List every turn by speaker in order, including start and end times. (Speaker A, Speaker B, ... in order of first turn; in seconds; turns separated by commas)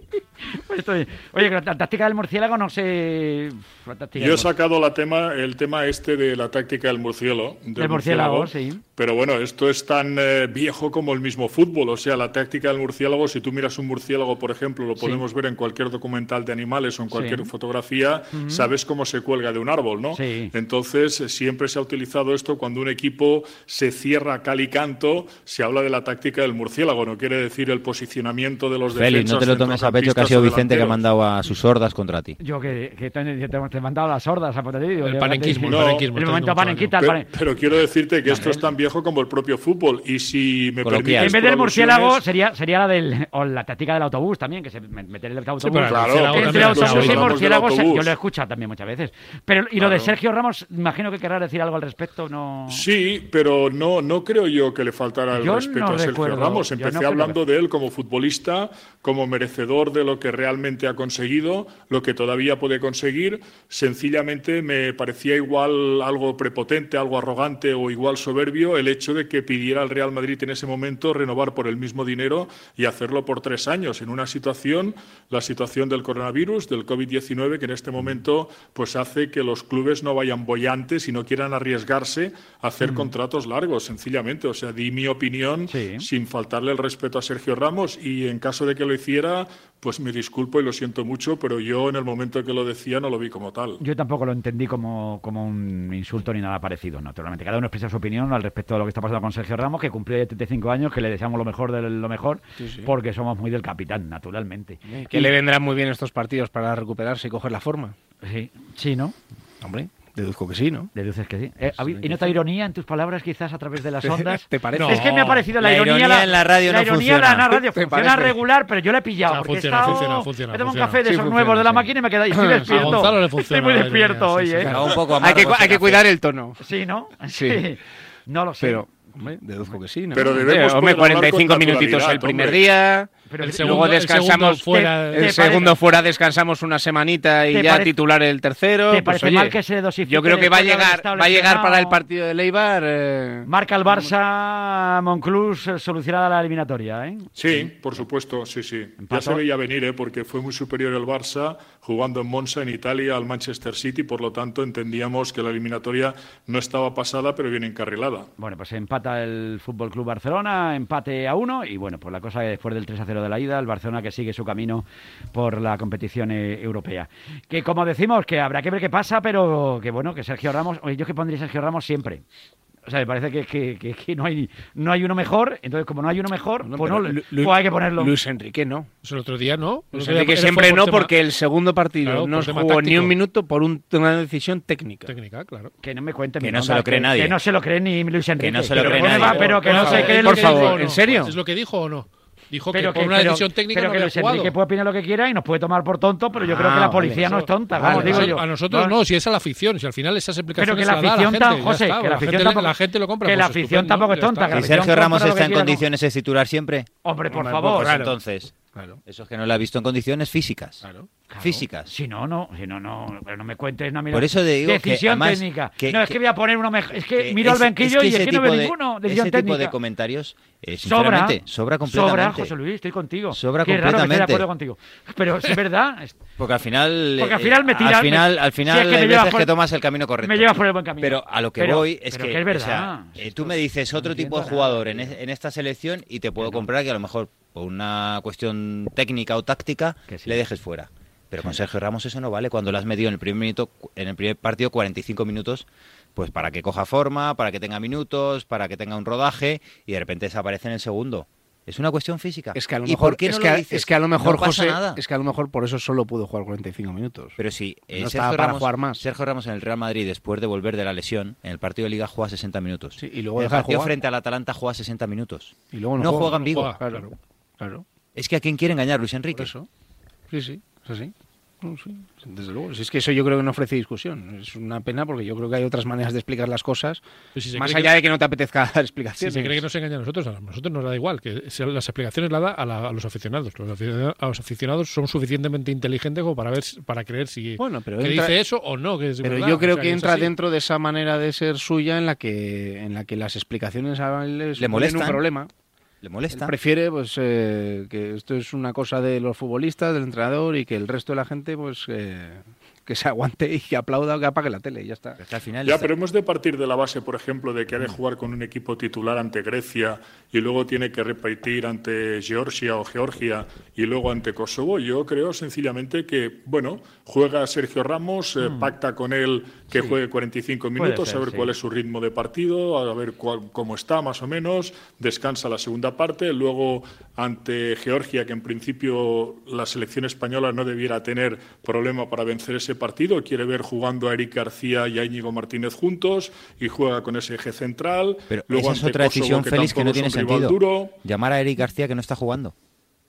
Speaker A: 0.6-4.5, Speaker B: 4.2-31.0, Speaker A: 7.8-8.8, Speaker A: 17.1-17.5, Speaker A: 18.3-18.7, Speaker A: 20.1-20.5, Speaker C: 28.9-32.4, Speaker A: 32.4-37.3, Speaker D: 35.0-37.0, Speaker B: 35.7-36.1, Speaker B: 37.0-42.2, Speaker A: 38.3-38.7, Speaker C: 40.8-41.4, Speaker A: 41.1-52.9, Speaker D: 45.6-47.4, Speaker B: 45.9-48.1, Speaker B: 49.8-50.1, Speaker B: 52.7-93.8, Speaker A: 55.4-57.4, Speaker A: 82.8-83.1, Speaker A: 85.7-86.1, Speaker A: 93.8-105.2, Speaker E: 102.6-102.9, Speaker E: 104.9-108.0, Speaker A: 108.2-109.2, Speaker E: 109.6-110.9, Speaker A: 111.0-124.7, Speaker E: 111.9-112.3, Speaker E: 114.0-115.1, Speaker D: 114.7-115.5, Speaker C: 115.6-117.5, Speaker E: 117.7-118.4, Speaker D: 119.3-121.0, Speaker E: 121.0-123.1, Speaker D: 122.7-124.7, Speaker E: 124.6-126.6, Speaker C: 124.7-126.1, Speaker A: 126.6-129.3, Speaker E: 127.3-127.7, Speaker E: 128.6-144.1, Speaker B: 130.1-132.7, Speaker A: 133.3-134.0, Speaker D: 133.4-135.7, Speaker A: 134.5-135.8, Speaker A: 137.5-137.9, Speaker A: 138.9-142.0, Speaker A: 143.5-147.3, Speaker B: 147.4-158.3, Speaker A: 149.0-149.4, Speaker A: 158.4-172.2, Speaker A: 172.9-178.2, Speaker E: 176.6-178.9, Speaker D: 179.0-181.1, Speaker E: 179.9-185.1, Speaker D: 182.0-183.2, Speaker D: 185.1-185.7, Speaker A: 185.8-190.8, Speaker C: 186.4-187.4, Speaker C: 188.4-189.6, Speaker E: 188.8-191.3, Speaker D: 188.8-194.6, Speaker A: 192.7-199.0, Speaker E: 196.4-198.4, Speaker D: 197.2-204.6, Speaker A: 200.6-205.8, Speaker C: 204.5-206.9, Speaker A: 207.0-208.0, Speaker E: 207.3-208.2, Speaker C: 207.8-208.5, Speaker E: 208.7-209.0, Speaker C: 209.1-210.8, Speaker E: 210.8-211.1, Speaker A: 211.3-219.7, Speaker C: 211.4-211.9, Speaker C: 214.1-216.2, Speaker C: 217.2-222.5, Speaker A: 220.8-226.2, Speaker C: 223.3-224.5, Speaker C: 226.4-255.0, Speaker A: 227.2-229.5, Speaker A: 230.2-235.2, Speaker A: 236.4-236.7, Speaker A: 240.1-240.4, Speaker E: 252.5-257.4, Speaker C: 257.4-266.7, Speaker E: 257.9-259.0, Speaker E: 263.0-263.9, Speaker E: 265.7-267.9, Speaker D: 266.1-267.1, Speaker C: 268.1-269.5, Speaker E: 269.3-269.7, Speaker E: 270.3-277.0, Speaker D: 277.4-277.9, Speaker E: 277.6-279.6, Speaker D: 279.2-290.3, Speaker E: 287.6-288.4, Speaker E: 289.2-295.5, Speaker C: 294.6-295.2, Speaker C: 296.0-296.5, Speaker E: 296.3-305.2, Speaker C: 305.2-305.9, Speaker B: 305.6-341.0, Speaker A: 318.4-318.7, Speaker A: 319.7-320.0, Speaker A: 320.8-321.5, Speaker C: 338.3-342.5